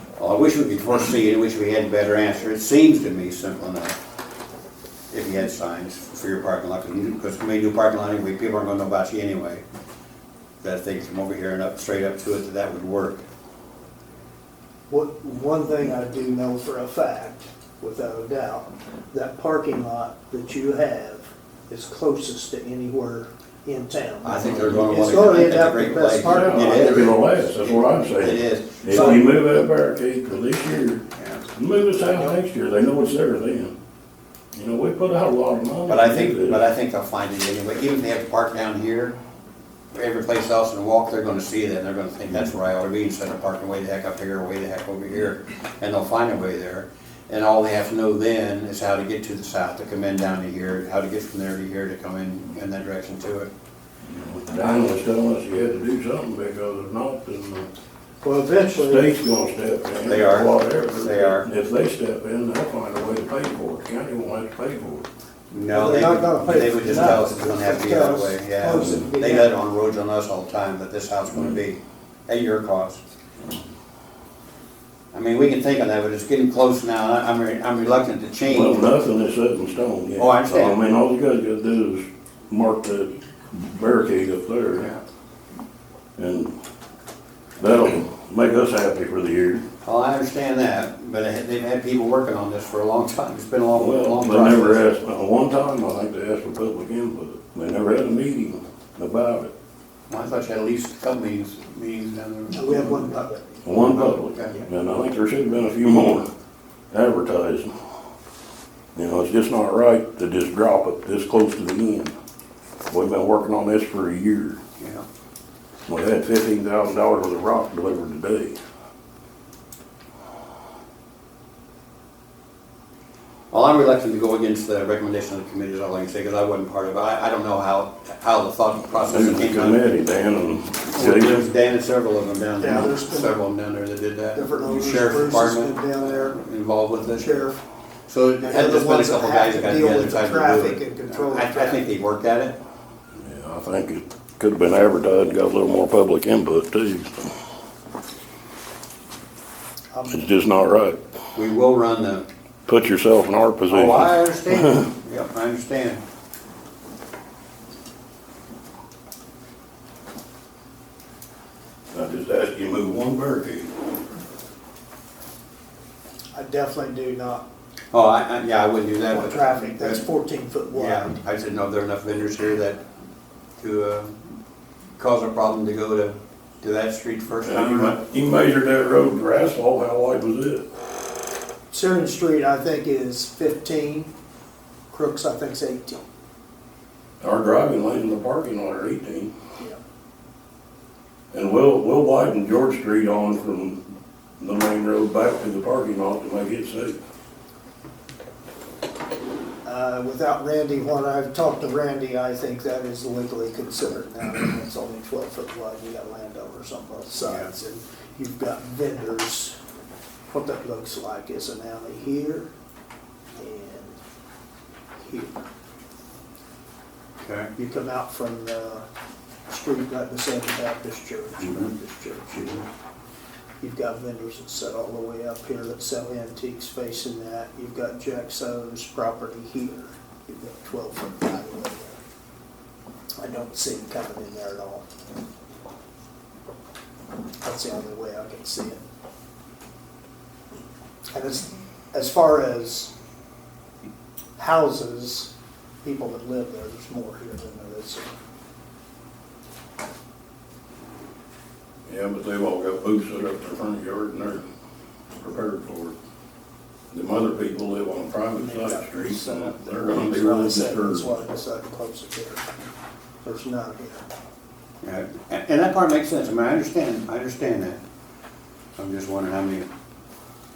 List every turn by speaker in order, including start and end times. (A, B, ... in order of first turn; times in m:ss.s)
0:00.2-0:04.0 A
0:05.1-0:09.6 A
0:10.6-0:13.2 A
0:14.9-0:27.2 B
0:24.2-0:29.3 A
0:26.2-0:31.0 C
0:29.0-0:29.2 B
0:31.2-0:31.5 A
0:31.6-0:33.8 C
0:34.5-0:36.6 C
0:35.9-0:39.2 A
0:39.9-0:53.5 A
0:54.0-0:57.7 C
0:58.2-0:59.1 B
0:58.6-1:05.1 C
1:00.0-1:01.5 A
1:05.5-1:13.0 A
1:05.7-1:09.5 B
1:08.8-1:09.1 C
1:15.1-1:18.9 A
1:18.4-1:24.9 C
1:20.2-1:20.8 A
1:26.2-1:26.5 C
1:27.6-1:29.6 C
1:29.8-1:34.9 A
1:33.7-1:39.5 C
1:40.1-1:43.2 A
1:42.5-1:43.8 B
1:43.6-1:46.3 C
1:43.7-1:44.7 A
1:46.9-1:47.7 C
1:49.0-1:52.1 C
1:52.9-1:54.6 C
1:54.8-1:55.0 A
1:55.9-1:58.6 C
2:03.5-2:09.8 A
2:09.1-2:11.5 C
2:10.9-2:17.4 A
2:12.6-2:13.4 B
2:14.3-2:16.4 B
2:17.2-2:17.6 B
2:18.1-2:22.6 A
2:18.4-2:21.9 B
2:23.2-2:27.3 C
2:29.9-2:30.3 B
2:30.1-2:31.0 C
2:31.4-2:32.3 A
2:32.7-2:34.9 C
2:33.7-2:36.0 A
2:41.9-2:43.7 C
2:46.4-2:47.5 B
2:47.9-2:50.0 A
2:49.1-2:51.2 B
2:50.7-2:52.8 A
2:53.6-2:54.1 A
2:55.0-2:58.0 A
2:57.4-3:00.7 C
3:01.7-3:04.1 B
3:04.9-3:06.0 B
3:07.2-3:09.3 C
3:11.3-3:13.8 C
3:14.4-3:17.0 C
3:19.6-3:29.6 B
3:27.2-3:27.5 A
3:30.3-3:32.5 B
3:33.4-3:34.0 B
3:35.0-3:35.5 B
3:37.2-3:37.5 A
3:37.6-3:38.8 B
3:39.5-3:42.7 B
3:41.4-3:41.7 A
3:42.4-3:42.6 A
3:43.6-3:52.0 B
3:53.2-3:54.8 B
3:57.4-3:58.8 B
4:01.1-4:02.9 B
4:04.4-4:05.3 B
4:05.8-4:08.1 B
4:11.9-4:14.4 C
4:15.2-4:16.0 C
4:16.9-4:21.2 C
4:18.4-4:22.5 B
4:23.2-4:24.1 B
4:24.8-4:27.8 A
4:28.8-4:29.7 A